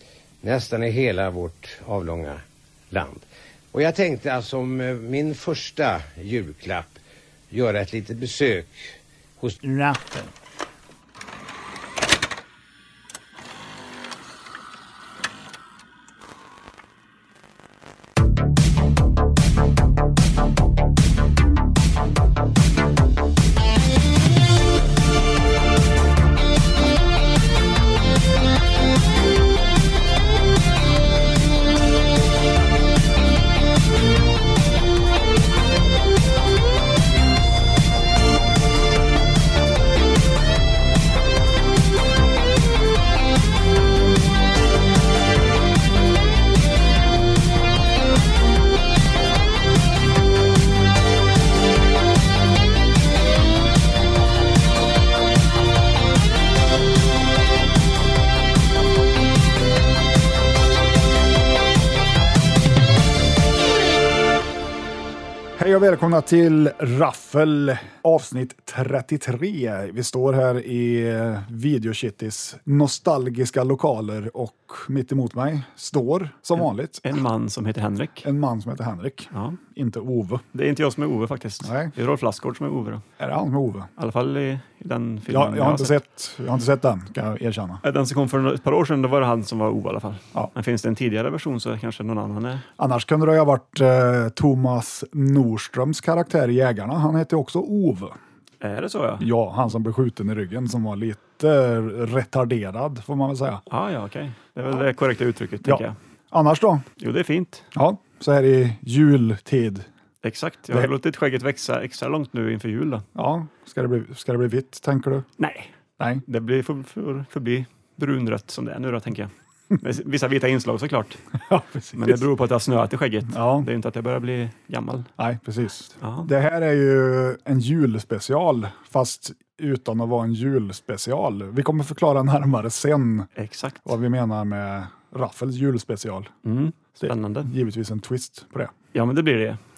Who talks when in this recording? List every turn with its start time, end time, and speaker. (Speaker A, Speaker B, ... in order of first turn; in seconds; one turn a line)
Speaker A: 0.4-7.0
Speaker A: 7.5-9.6
Speaker B: 9.6-10.2
Speaker B: 65.6-77.2
Speaker C: 76.6-78.3
Speaker B: 78.2-80.4
Speaker C: 79.3-79.6
Speaker C: 80.5-83.0
Speaker B: 81.6-81.9
Speaker B: 83.2-83.9
Speaker C: 84.0-86.0
Speaker B: 85.3-87.8
Speaker C: 87.8-92.6
Speaker B: 92.8-98.2
Speaker C: 98.6-99.2
Speaker B: 99.2-103.6
Speaker C: 103.7-106.0
Speaker B: 105.6-106.8
Speaker C: 107.0-107.7
Speaker B: 107.7-109.9
Speaker C: 110.2-113.0
Speaker B: 113.1-115.3
Speaker C: 115.4-115.7
Speaker B: 116.0-116.2
Speaker C: 116.2-121.2
Speaker B: 121.5-122.3
Speaker C: 122.0-125.1
Speaker B: 123.3-123.7
Speaker B: 125.2-133.3
Speaker C: 126.0-126.3
Speaker C: 133.4-133.9
Speaker B: 133.8-136.3
Speaker C: 136.4-137.5
Speaker B: 137.0-138.7
Speaker C: 138.9-139.6